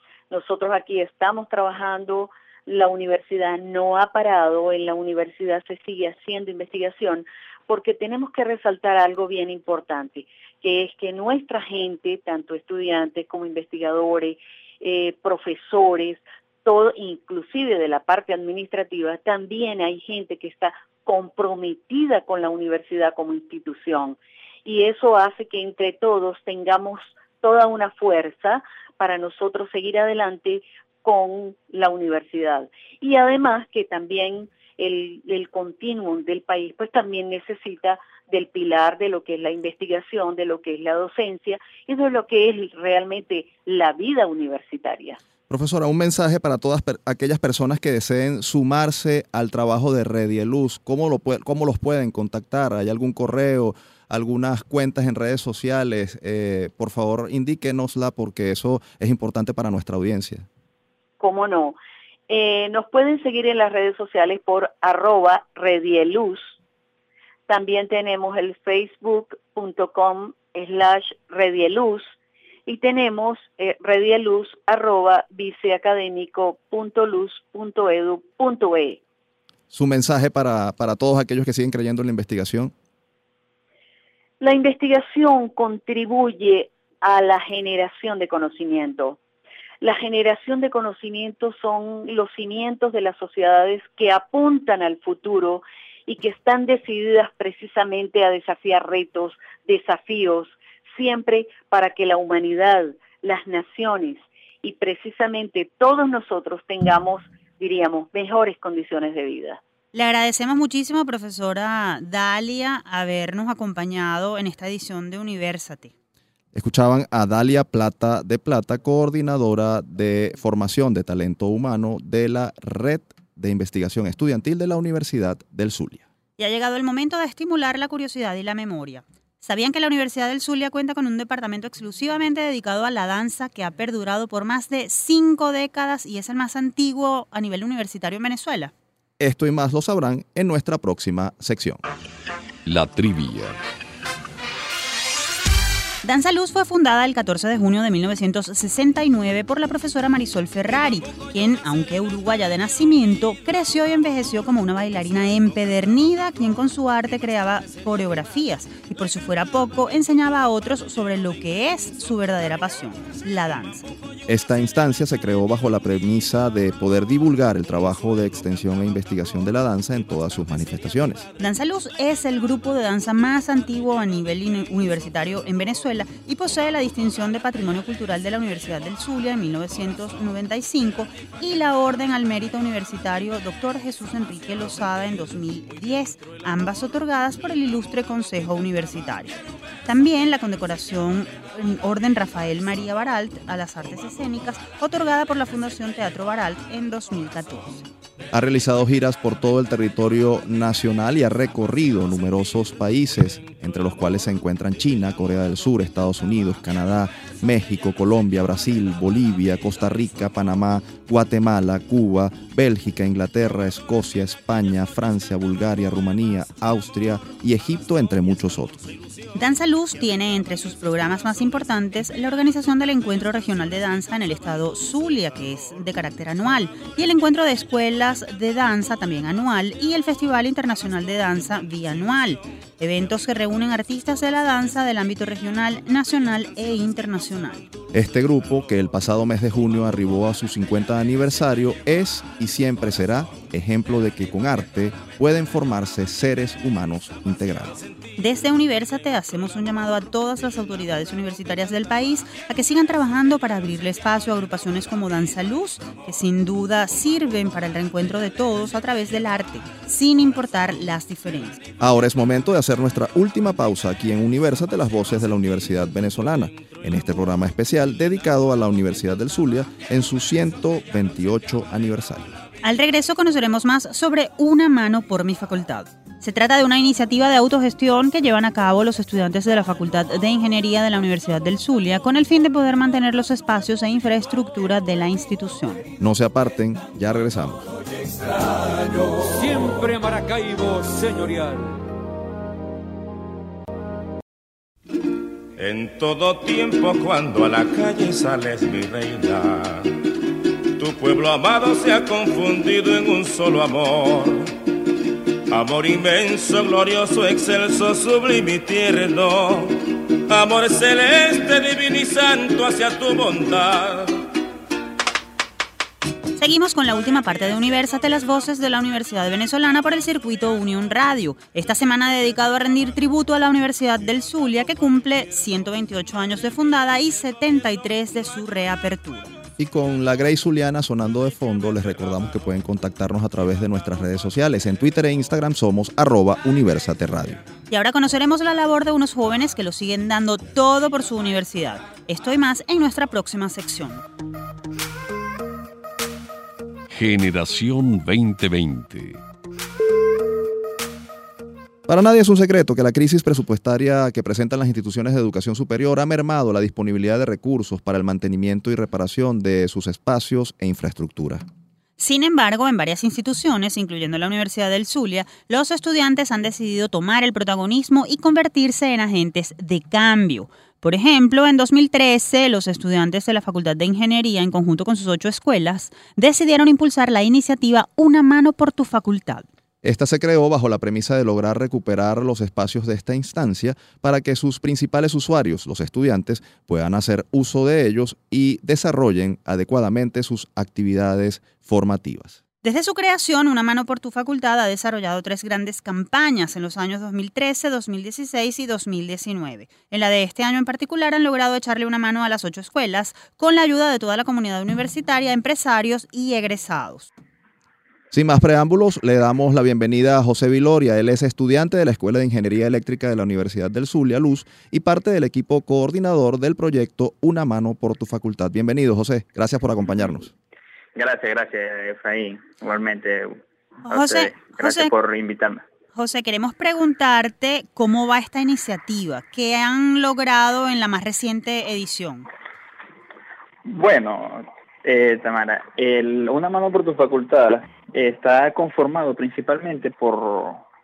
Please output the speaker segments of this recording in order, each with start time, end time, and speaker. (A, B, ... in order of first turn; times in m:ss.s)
0:00.3-0:45.2 A
0:45.5-1:00.5 B
1:01.2-1:01.8 A
1:02.3-1:06.6 A
1:07.5-1:12.2 A
1:12.7-1:19.0 A
1:19.7-1:22.7 B
1:24.4-1:29.2 A
1:29.8-1:49.6 A
1:49.9-1:55.9 C
1:56.6-2:06.0 B
2:06.4-2:18.7 C
2:19.2-2:21.8 B
2:22.7-2:23.6 D
2:26.0-2:43.9 C
2:44.3-2:51.2 B
2:51.4-3:17.8 C
3:18.3-3:38.9 B
3:39.4-3:57.7 C
3:57.9-4:07.8 B
4:08.2-4:21.6 C
4:21.8-4:32.4 B
4:32.6-4:45.8 C
4:46.0-4:47.7 B
4:49.1-4:51.8 E
4:55.6-5:00.0 D
5:00.7-5:04.6 D
5:05.5-5:14.2 D
5:16.4-5:29.3 C
5:29.6-5:37.4 B
5:37.7-5:44.0 C
5:46.9-5:49.2 D
5:51.9-6:01.4 B
6:02.0-6:19.5 C
6:19.8-6:32.4 B
6:32.6-6:47.1 C
6:48.1-7:00.3 B
7:01.0-7:05.6 F
7:03.9-7:04.9 C
7:06.0-7:12.3 C
7:13.7-7:20.6 F